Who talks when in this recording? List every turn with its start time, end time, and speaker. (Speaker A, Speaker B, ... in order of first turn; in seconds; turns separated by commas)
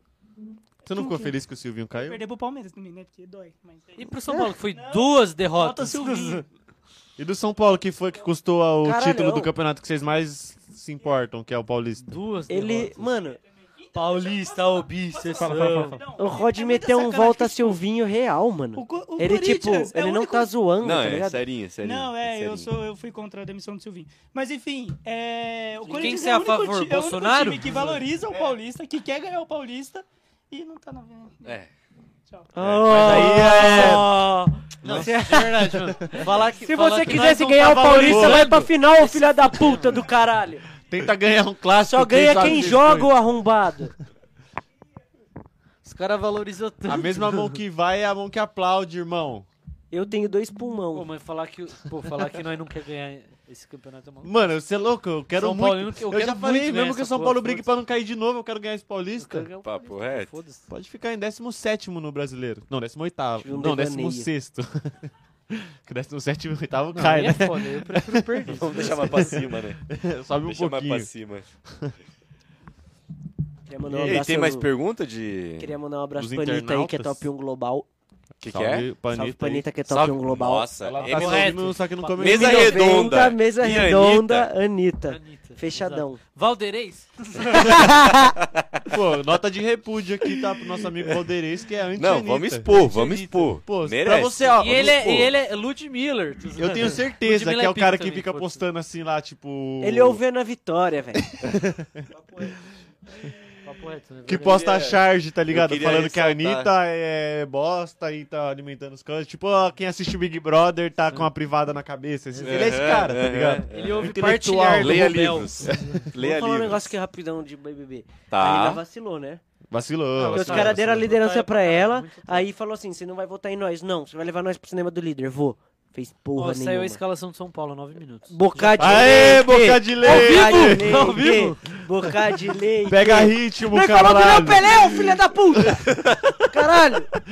Speaker A: 0.8-2.2, Speaker B: 1.9-6.5, Speaker C: 4.0-6.5, Speaker A: 7.2-12.1, Speaker D: 8.8-9.5, Speaker C: 12.0-13.1, Speaker D: 12.5-13.4, Speaker B: 13.3-17.8, Speaker C: 13.9-16.0, Speaker A: 15.5-15.9, Speaker D: 16.2-21.4, Speaker B: 18.7-20.6, Speaker E: 20.8-22.7, Speaker B: 21.8-31.6, Speaker C: 25.8-27.9, Speaker E: 31.4-31.7, Speaker B: 32.3-32.5, Speaker D: 32.5-40.7, Speaker E: 32.6-33.4, Speaker A: 32.9-34.2, Speaker C: 33.4-34.0, Speaker C: 34.8-40.0, Speaker A: 37.6-38.6, Speaker A: 40.9-43.2, Speaker D: 41.8-43.9, Speaker C: 45.8-47.6, Speaker A: 46.9-49.5, Speaker D: 49.9-51.1, Speaker C: 50.9-54.3, Speaker A: 54.2-59.5, Speaker C: 55.4-57.7, Speaker C: 59.2-60.7, Speaker E: 59.6-60.3, Speaker A: 60.7-71.1, Speaker D: 63.4-64.3, Speaker C: 66.9-69.5, Speaker E: 68.5-69.8, Speaker E: 70.4-71.5, Speaker A: 71.7-71.9, Speaker D: 73.7-74.7, Speaker A: 73.9-74.2, Speaker E: 73.9-75.7, Speaker D: 75.6-77.9, Speaker A: 76.2-77.2, Speaker E: 78.4-78.9, Speaker A: 78.5-79.7, Speaker D: 79.1-80.7, Speaker E: 79.9-81.6, Speaker A: 80.9-82.8, Speaker C: 81.0-83.1, Speaker E: 82.2-84.5, Speaker D: 82.2-86.2, Speaker C: 85.1-88.1, Speaker D: 87.5-88.3, Speaker E: 88.6-88.8, Speaker A: 88.9-92.7, Speaker E: 92.0-95.3, Speaker C: 92.7-93.7, Speaker A: 93.7-95.0, Speaker C: 94.6-98.7, Speaker A: 96.6-100.2, Speaker D: 99.8-101.3, Speaker A: 101.3-102.1, Speaker C: 102.1-102.6, Speaker C: 103.6-104.7, Speaker A: 104.2-116.1, Speaker E: 104.3-106.7, Speaker C: 112.3-113.2, Speaker E: 112.4-114.2, Speaker C: 113.7-116.0, Speaker E: 114.7-116.9, Speaker D: 116.1-119.4, Speaker E: 118.3-118.8, Speaker A: 119.7-121.2, Speaker C: 120.2-122.5, Speaker D: 120.3-127.0, Speaker C: 126.4-129.4, Speaker D: 128.3-135.8, Speaker A: 128.8-131.2, Speaker C: 130.0-131.8, Speaker A: 132.8-135.2, Speaker E: 135.9-136.5, Speaker D: 136.4-137.1